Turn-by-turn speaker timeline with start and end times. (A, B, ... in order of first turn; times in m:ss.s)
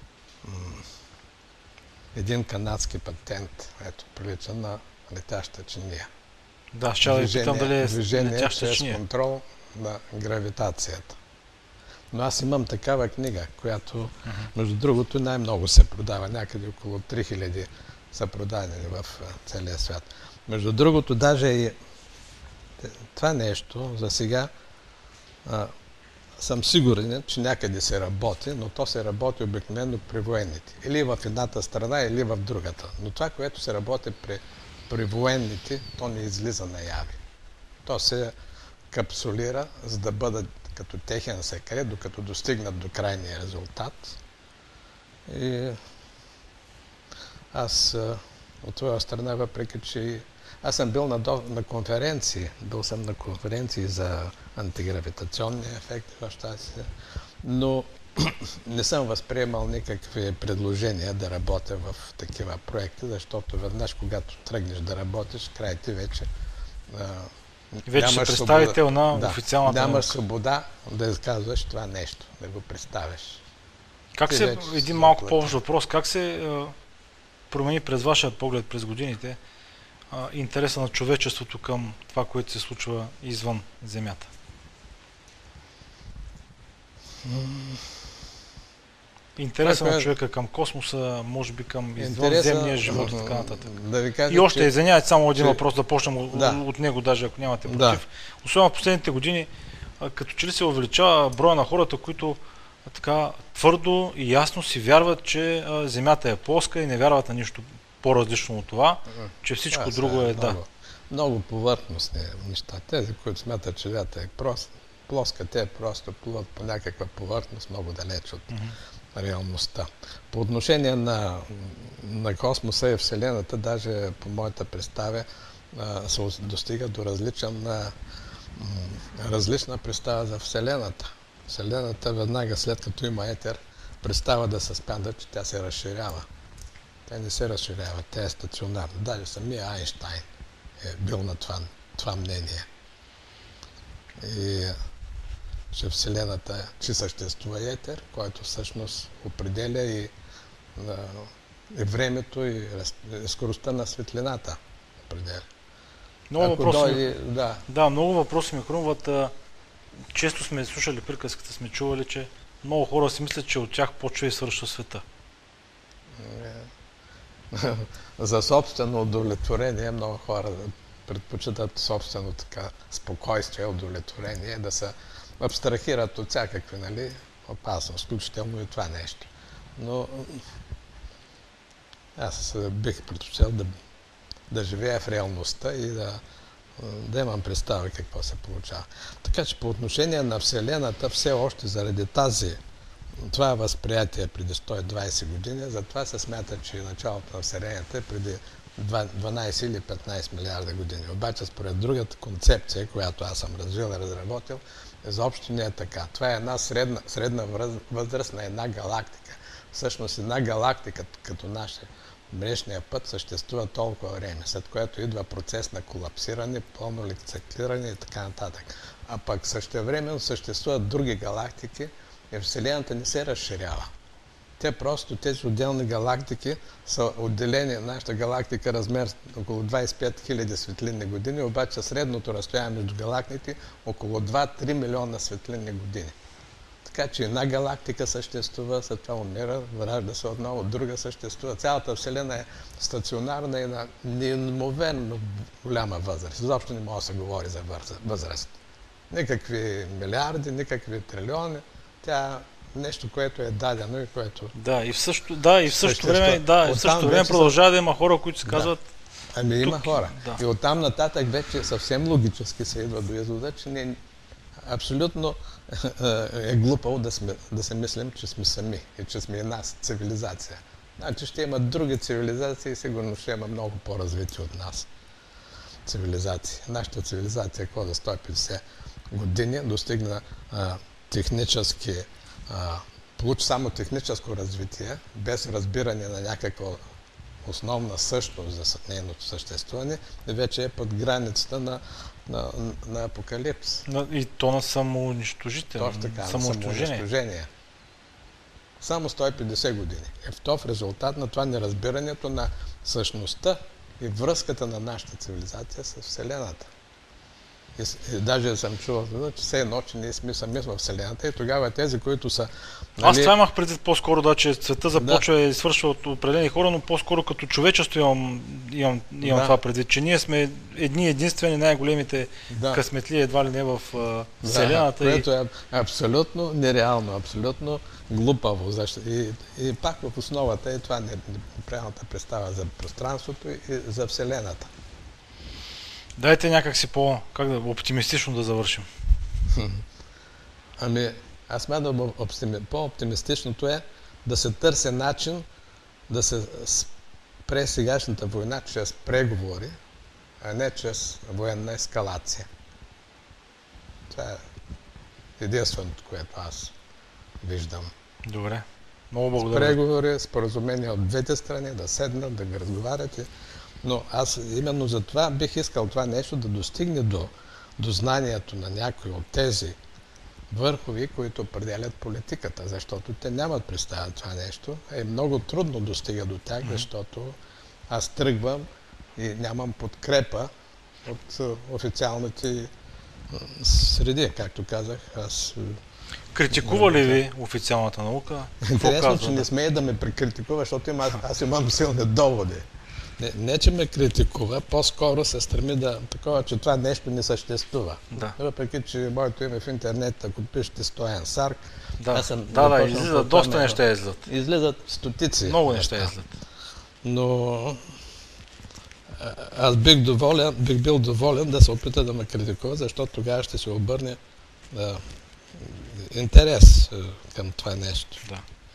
0:00.4-0:00.9 A
0:02.2-0:06.1 A
0:06.7-0:09.0 B
0:07.0-0:11.2 A
0:12.1-0:21.8 A
0:22.8-0:24.5 A
0:25.4-0:25.7 A
0:26.4-0:37.2 A
0:37.9-0:38.3 A
0:38.9-0:44.2 A
0:45.3-0:45.8 A
0:47.5-0:56.9 A
0:57.4-1:06.3 A
1:06.9-1:13.4 A
1:07.9-1:10.2 B
1:14.2-1:16.8 B
1:14.3-1:15.5 A
1:17.5-1:19.4 B
1:20.1-1:24.3 B
1:27.2-1:28.0 A
1:29.4-1:33.7 B
1:29.6-1:30.1 A
1:32.0-1:34.7 A
1:34.3-1:39.5 B
1:36.3-1:36.6 A
1:37.7-1:38.0 A
1:40.0-1:50.6 B
1:49.2-1:58.5 A
1:59.1-2:08.0 A
2:08.6-2:16.3 A
2:17.1-2:20.2 A
2:20.8-2:22.7 A
2:24.2-2:24.8 A
2:25.7-2:30.1 A
2:30.8-2:35.5 A
2:36.3-2:37.0 B
2:36.4-2:37.6 A
2:37.7-2:39.3 B
2:40.1-2:45.0 B
2:46.2-2:46.7 A
2:47.5-3:00.4 A
3:02.2-3:03.7 A
3:04.5-3:06.2 A
3:06.8-3:12.6 A
3:13.2-3:43.9 A
3:44.6-3:56.1 A
3:56.9-4:08.5 A
4:09.1-4:14.5 A
4:14.6-4:18.9 B
4:15.7-4:17.6 A
4:18.5-4:18.7 A
4:19.3-4:24.0 A
4:19.6-4:20.4 B
4:24.6-4:34.9 A
4:35.9-4:46.8 A
4:47.4-4:53.8 A
4:53.9-4:57.0 B
4:55.8-4:57.5 A
4:58.8-5:06.7 A
5:07.8-5:13.3 A
5:13.0-5:25.3 B
5:15.0-5:15.2 A
5:19.2-5:19.6 A
5:22.5-5:22.8 A
5:24.4-5:34.7 A
5:36.2-5:38.9 B
5:39.5-5:39.8 A
5:40.8-5:45.4 A
5:46.1-5:46.9 A
5:47.5-5:49.8 A
5:50.4-5:52.5 A
5:54.1-5:54.4 A
5:55.4-5:56.7 A
5:57.4-5:57.9 A
5:58.2-5:59.8 B
5:59.4-6:03.3 A
6:03.8-6:09.8 A
6:10.5-6:17.4 A
6:17.9-6:18.7 A
6:19.2-6:20.5 A
6:21.0-6:22.7 A
6:23.3-6:25.8 A
6:26.3-6:29.5 B
6:26.5-6:27.2 A
6:28.6-6:32.6 A
6:33.2-6:46.2 A
6:42.0-6:44.3 B
6:45.4-6:46.3 B
6:47.0-6:47.9 A
6:49.2-6:54.2 A
6:54.7-6:55.0 A
6:55.6-6:58.2 A